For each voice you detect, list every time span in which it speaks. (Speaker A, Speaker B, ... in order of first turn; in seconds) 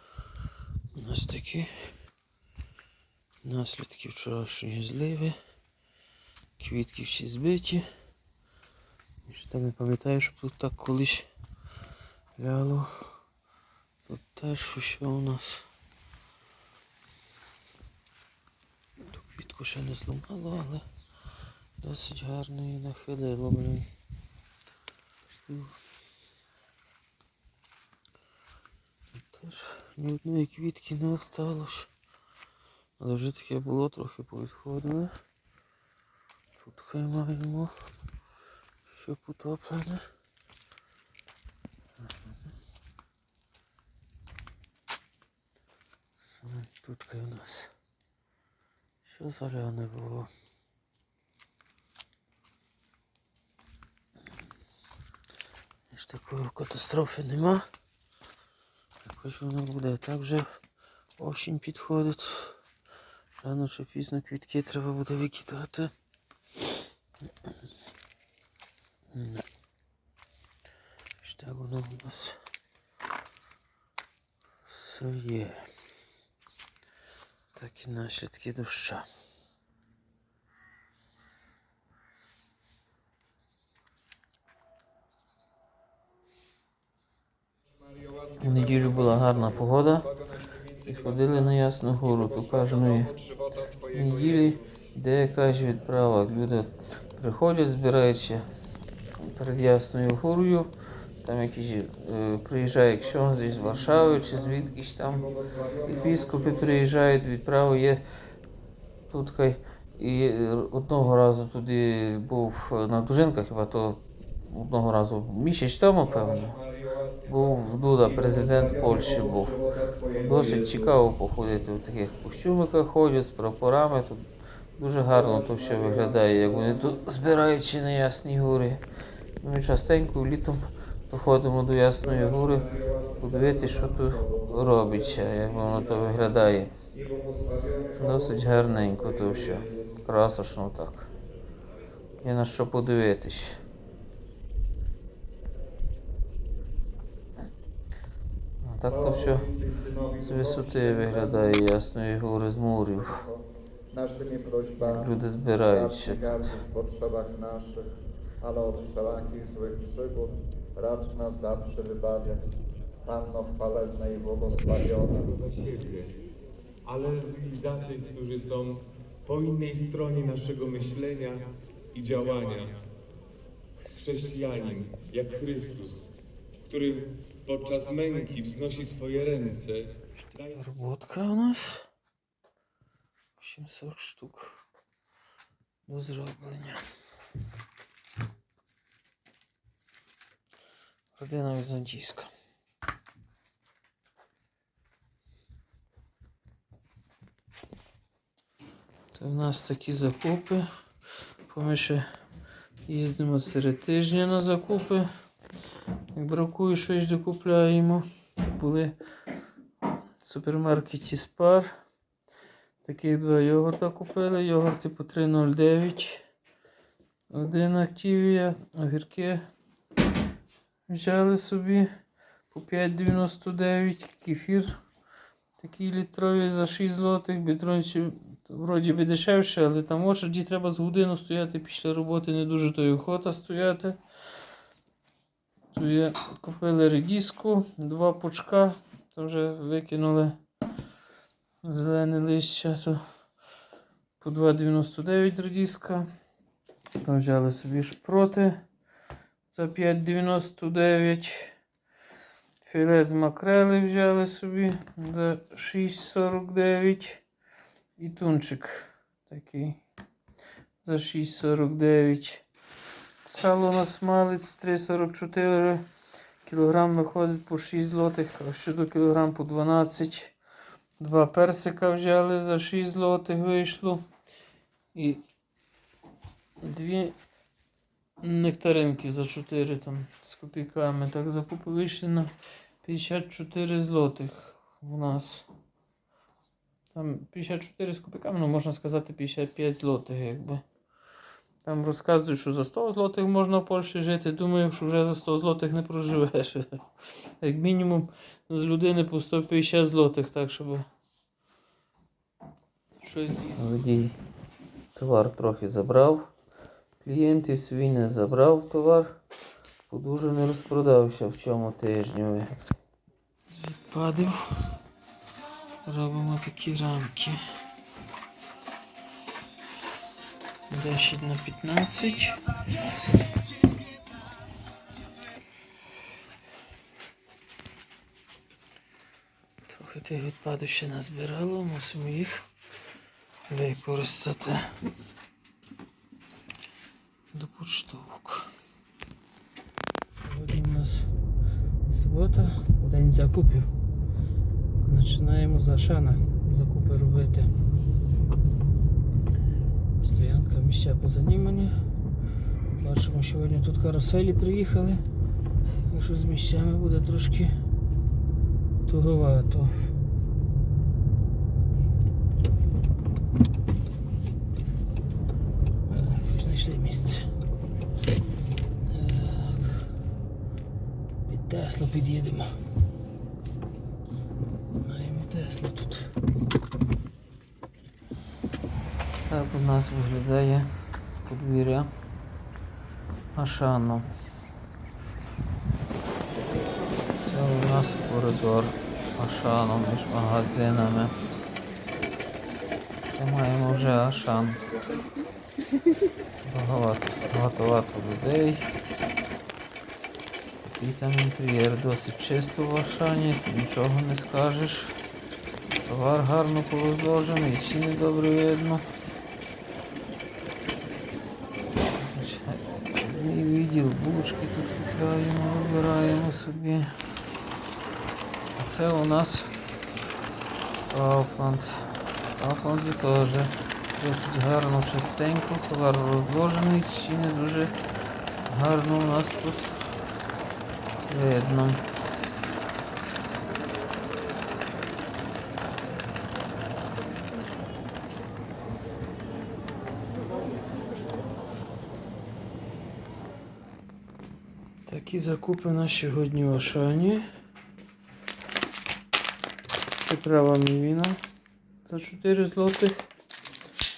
Speaker A: 0.9-1.7, 3.5-5.3, 6.6-7.8, 9.3-11.3, 12.4-13.2, 14.1-15.6, 19.1-20.9, 21.8-23.9, 25.4-25.8, 29.2-31.9, 33.0-35.1, 36.6-37.7, 38.9-40.1, 46.4-47.7, 49.0-50.3, 55.9-57.7, 59.0-60.6, 61.2-62.6, 63.4-65.9, 69.1-69.5, 71.2-72.4, 74.7-75.7, 77.5-79.1, 88.4-90.1, 90.8-93.1, 93.9-98.5, 99.2-100.7, 101.2-105.3, 105.9-108.0, 109.1-116.6, 117.3-119.6, 120.1-124.2, 124.8-128.8, 129.4-136.7, 138.0-141.1, 142.2-143.6, 148.6-149.5, 150.2-153.2, 154.8-156.6, 180.4-181.9, 183.4-184.6, 185.9-186.8, 191.2-192.3, 199.1-200.7, 201.5-202.1, 202.9-205.1, 206.1-208.9, 210.2-211.7, 212.8-216.2, 217.3-219.4, 220.9-221.9, 222.5-224.8, 225.6-234.0, 235.7-240.4, 241.6-243.0, 244.2-246.1, 247.0-248.6, 249.5-251.6, 252.6-257.2, 258.0-259.8, 260.8-262.4, 263.2-265.8, 266.4-270.4, 271.0-274.0, 274.9-275.2, 276.6-277.1, 278.2-282.3, 282.8-285.5, 286.9-290.6, 291.6-296.8, 297.4-300.9, 303.0-304.2, 304.9-306.3, 307.0-309.1, 309.9-312.5, 313.5-314.8, 315.9-317.4, 320.7-322.5, 329.7-332.4, 333.5-334.8, 337.3-338.5, 340.2-341.1, 341.9-343.7, 344.8-347.5, 350.0-351.8, 352.8-355.0, 355.9-357.5, 358.9-359.9, 365.9-367.3, 368.9-369.8, 371.3-372.6, 374.8-376.1, 379.3-380.7, 381.2-381.9, 383.4-384.1, 387.2-391.1, 393.1-394.6, 396.4-398.7, 400.6-404.9, 405.8-408.9, 411.9-416.9, 418.6-419.5, 420.9-427.8, 428.4-429.7, 431.1-431.8, 444.9-447.2, 450.0-451.2, 451.9-453.1
Speaker B: 87.9-91.4, 92.1-94.6, 103.2-106.8, 116.1-120.9, 125.1-127.0, 132.1-136.2, 136.9-139.8, 148.9-151.6, 153.0-155.1, 155.7-162.5, 163.1-165.3
Speaker C: 165.2-166.2, 166.8-172.8, 173.9-176.1, 176.7-180.6